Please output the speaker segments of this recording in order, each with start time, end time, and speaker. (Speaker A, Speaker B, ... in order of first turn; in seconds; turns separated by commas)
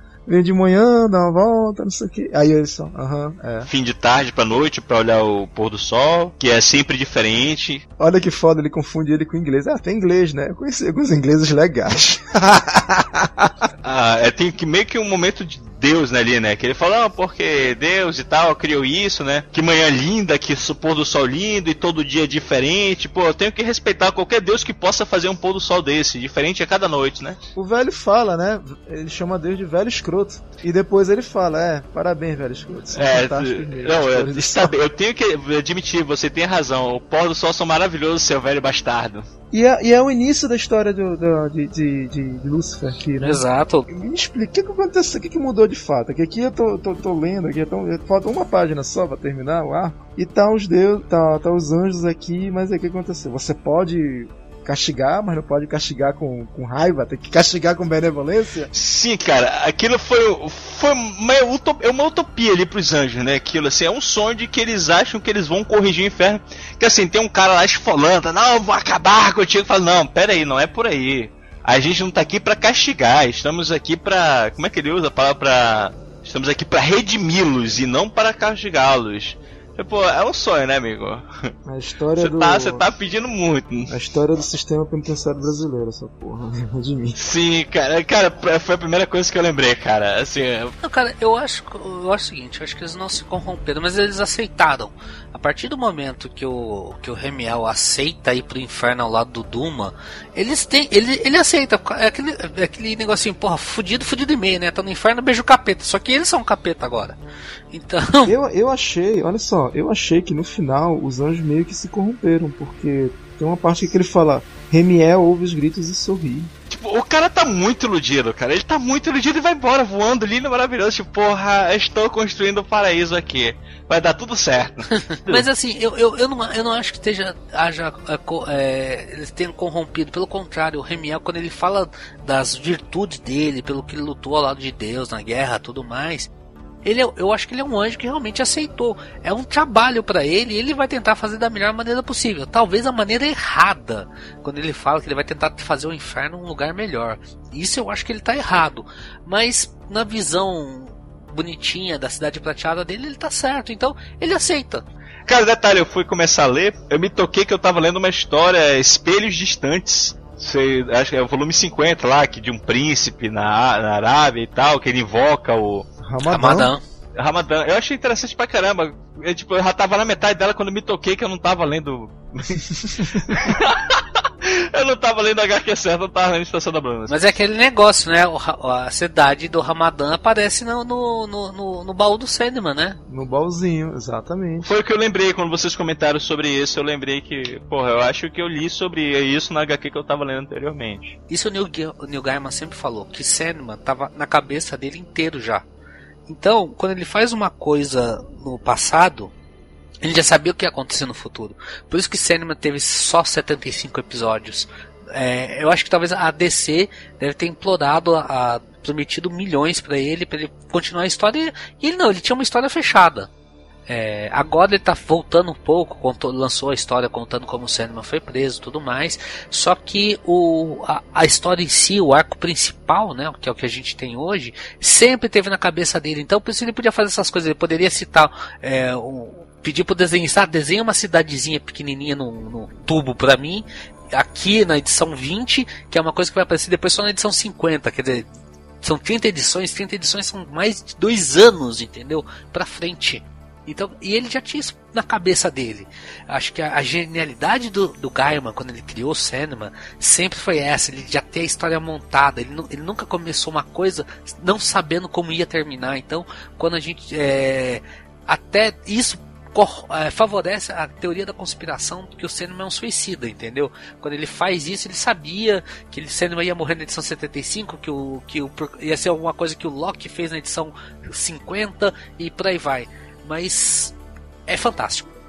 Speaker A: 0.3-3.7, Speaker B: 3.6-7.8, Speaker A: 8.0-13.7, Speaker B: 13.8-27.4, Speaker A: 27.5-34.7, Speaker B: 32.9-39.2, Speaker A: 39.5-58.7, Speaker C: 43.2-43.9, Speaker B: 58.7-81.5, Speaker A: 81.7-82.8, Speaker B: 82.2-83.9, Speaker A: 83.9-87.2, Speaker B: 87.2-90.7, Speaker C: 90.8-107.2, Speaker C: 107.7-108.3, Speaker A: 108.2-116.5, Speaker B: 116.7-125.4, Speaker C: 125.2-136.3, Speaker C: 136.8-154.8, Speaker B: 155.3-165.9, Speaker A: 166.0-166.7, Speaker C: 166.3-166.8, Speaker B: 167.2-177.2, Speaker C: 177.1-183.0, Speaker A: 183.1-184.7, Speaker B: 184.6-191.2, Speaker C: 191.3-195.6, Speaker C: 196.3-199.3, Speaker C: 200.0-213.3, Speaker C: 213.9-238.3, Speaker C: 238.8-273.9, Speaker C: 274.5-275.1